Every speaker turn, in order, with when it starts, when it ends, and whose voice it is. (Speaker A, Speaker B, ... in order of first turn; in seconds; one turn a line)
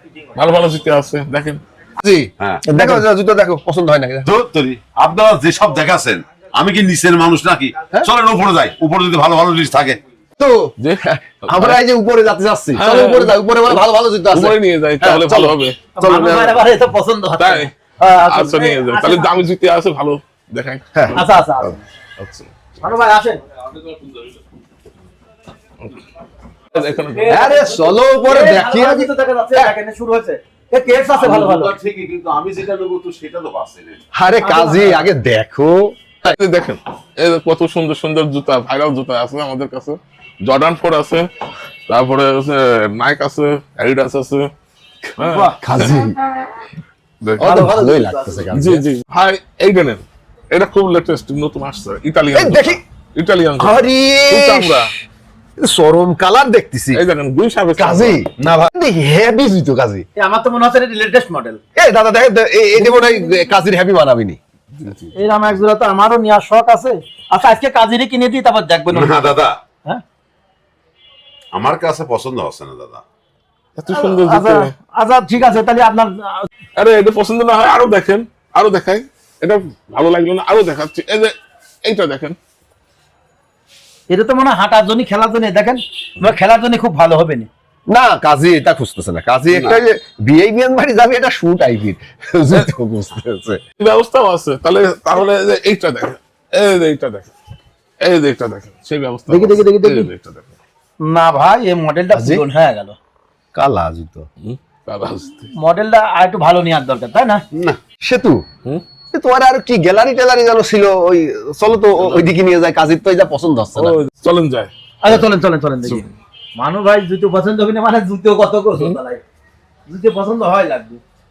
Speaker A: 0.3-1.6
Speaker B: 2.0-4.3
Speaker C: 2.4-2.6
Speaker D: 2.7-3.0
Speaker C: 4.2-10.0
Speaker B: 10.4-16.6
Speaker A: 10.8-11.8
Speaker A: 12.8-15.8
Speaker D: 16.0-19.3
Speaker A: 17.4-22.5
Speaker D: 21.1-21.8
Speaker D: 22.8-23.4
Speaker A: 26.7-27.4
Speaker D: 27.1-31.7
Speaker B: 27.3-29.7
Speaker C: 31.1-34.0
Speaker B: 34.1-36.4
Speaker D: 34.4-35.1
Speaker A: 36.2-41.3
Speaker A: 41.9-44.5
Speaker A: 45.2-46.0
Speaker D: 45.2-45.6
Speaker B: 45.6-46.2
Speaker A: 47.2-47.7
Speaker B: 47.4-48.9
Speaker D: 47.4-48.4
Speaker A: 48.5-54.9
Speaker B: 52.3-52.8
Speaker B: 53.6-54.9
Speaker B: 55.6-57.0
Speaker A: 56.9-58.2
Speaker B: 57.8-60.1
Speaker D: 60.2-61.6
Speaker B: 61.8-64.9
Speaker D: 62.8-63.5
Speaker D: 65.1-69.3
Speaker C: 68.9-69.6
Speaker C: 71.5-73.0
Speaker A: 73.8-74.7
Speaker D: 73.9-76.5
Speaker A: 76.8-81.3
Speaker A: 81.8-82.4
Speaker D: 84.1-87.5
Speaker B: 87.9-93.6
Speaker C: 89.5-89.8
Speaker A: 93.8-97.3
Speaker A: 98.0-100.6
Speaker D: 99.3-100.1
Speaker D: 101.0-103.0
Speaker B: 102.1-102.4
Speaker B: 103.5-104.3
Speaker A: 104.4-105.5
Speaker D: 105.6-107.4
Speaker C: 107.5-107.8
Speaker B: 108.0-108.4
Speaker B: 109.1-114.0
Speaker A: 113.8-115.2
Speaker D: 115.0-119.2
Speaker D: 119.9-121.0